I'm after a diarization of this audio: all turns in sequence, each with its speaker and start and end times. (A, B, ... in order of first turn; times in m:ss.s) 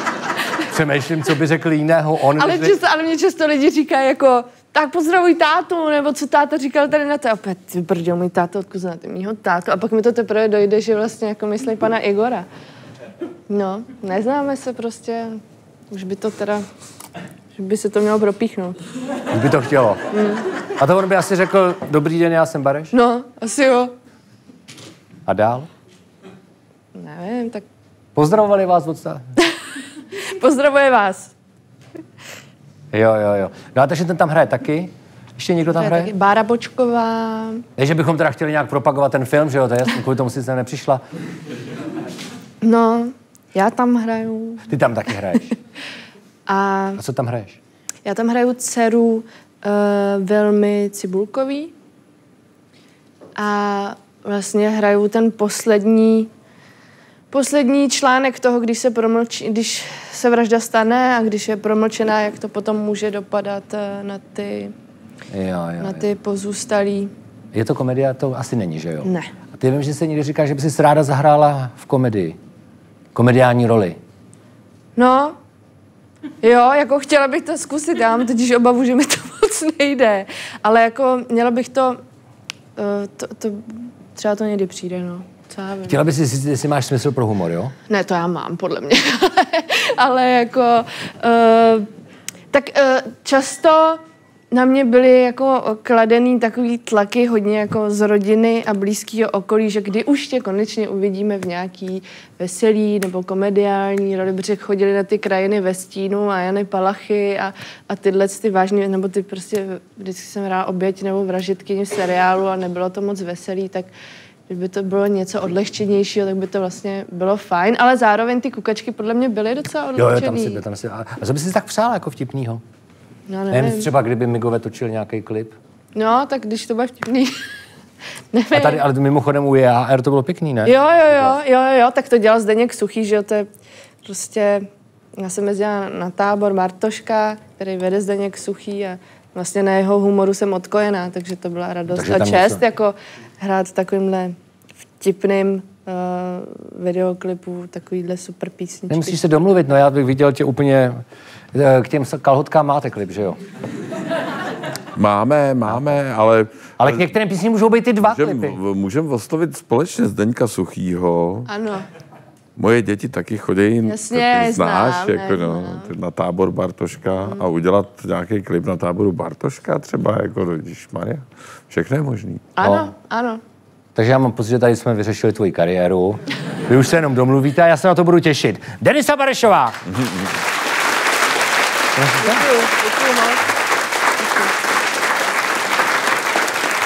0:00.7-0:02.8 A
0:02.4-0:12.4 B
0:13.5-0:15.4 B
0:15.9-0:16.6 B
0:17.6-0:18.8 B
0:19.3-0:20.0 A
0:20.1-0:20.4 B
0:20.8-0:22.9 A
0:22.9-0:23.9 B
0:25.3-0:25.7 A
0:26.9-0:27.6 B
0:28.1-0:29.2 A
0:30.2-0:31.3 B
0:32.9-0:36.1 A
0:35.8-0:37.6 B
0:37.8-0:41.0 A
0:42.6-0:44.7 B
0:44.7-0:45.5 A
0:46.5-0:47.0 B
0:47.0-0:47.6 A
0:48.0-0:51.7 B
0:53.4-0:56.3 B
0:57.3-1:04.7 B
1:05.3-1:06.1 A
1:05.8-1:07.1 B
1:07.5-1:12.4 A
1:09.0-1:09.3 B
1:13.1-1:14.0 A
1:15.0-1:15.4 B
1:16.4-1:22.0 B
1:22.8-1:26.0 B
1:25.9-1:27.7 A
1:27.9-1:31.9 B
1:32.5-1:53.9 B
1:54.5-2:00.6 B
2:00.0-2:02.6 A
2:03.3-2:03.9 B
2:03.5-2:05.6 A
2:05.9-2:07.4 B
2:08.3-2:08.8 B
2:08.5-2:11.4 A
2:10.6-2:13.5 B
2:14.0-2:14.7 B
2:15.2-2:24.4 B
2:21.9-2:22.6 A
2:25.0-2:29.2 B
2:28.9-2:31.0 A
2:31.5-2:33.4 A
2:34.9-2:37.0 C
2:36.8-2:38.6 A
2:38.1-2:41.5 C
2:41.5-2:41.9 B
2:42.6-2:52.4 C
2:43.8-2:45.9 B
2:47.2-2:47.4 B
2:52.6-2:53.4 B
2:52.6-2:52.9 A
2:53.9-2:59.8 A
2:59.9-3:00.2 C
3:01.9-3:02.5 A
3:02.2-3:03.4 B
3:04.2-3:04.5 B